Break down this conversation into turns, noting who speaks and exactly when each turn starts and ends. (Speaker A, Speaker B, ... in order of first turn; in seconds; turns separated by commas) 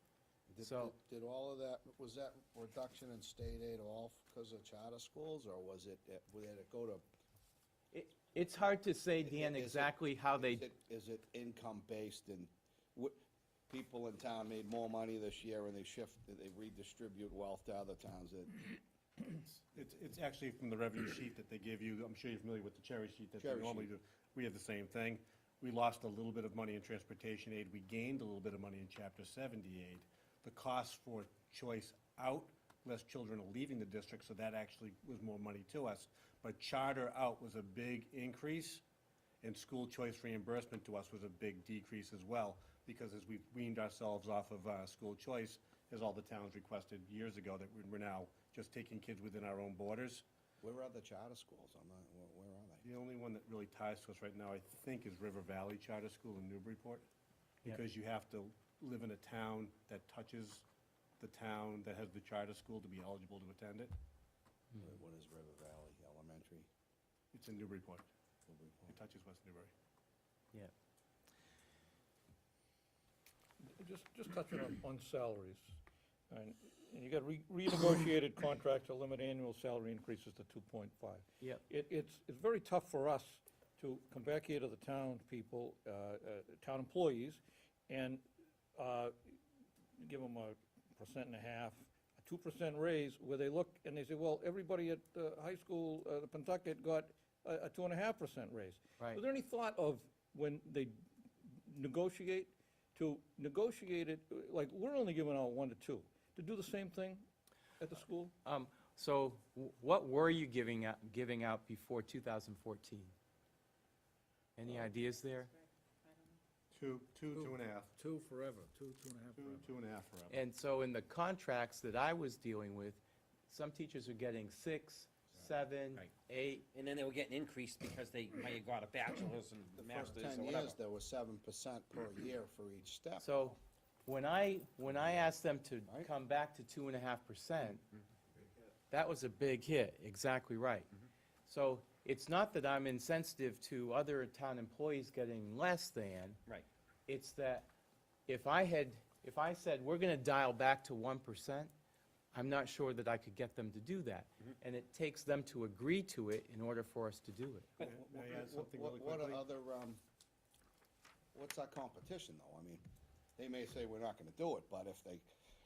Speaker A: 0.5-7.0, Speaker B: 0.6-0.9, Speaker B: 7.9-10.6, Speaker A: 9.2-13.2, Speaker A: 13.7-18.8, Speaker C: 19.8-38.8, Speaker A: 23.4-23.9, Speaker C: 39.4-50.2, Speaker A: 50.6-52.9, Speaker C: 52.8-57.1, Speaker C: 57.6-60.6, Speaker C: 61.2-64.0, Speaker A: 64.8-66.7, Speaker C: 67.3-68.1, Speaker A: 68.5-69.0, Speaker C: 68.9-69.7, Speaker D: 73.6-75.8, Speaker D: 76.3-88.2, Speaker D: 88.8-89.4, Speaker D: 90.0-101.0, Speaker D: 101.5-107.3, Speaker D: 107.8-108.3, Speaker B: 108.5-113.1, Speaker B: 114.6-115.5, Speaker C: 116.7-117.9, Speaker E: 117.3-119.7, Speaker C: 119.4-120.4, Speaker B: 120.3-126.7, Speaker F: 126.7-130.8, Speaker A: 129.8-133.5, Speaker B: 133.2-137.8, Speaker B: 138.9-140.9, Speaker B: 141.5-146.4, Speaker B: 147.1-147.7, Speaker B: 148.3-151.7, Speaker B: 152.3-157.7, Speaker C: 157.8-159.4, Speaker A: 157.8-160.0, Speaker A: 161.3-162.8, Speaker A: 163.4-165.3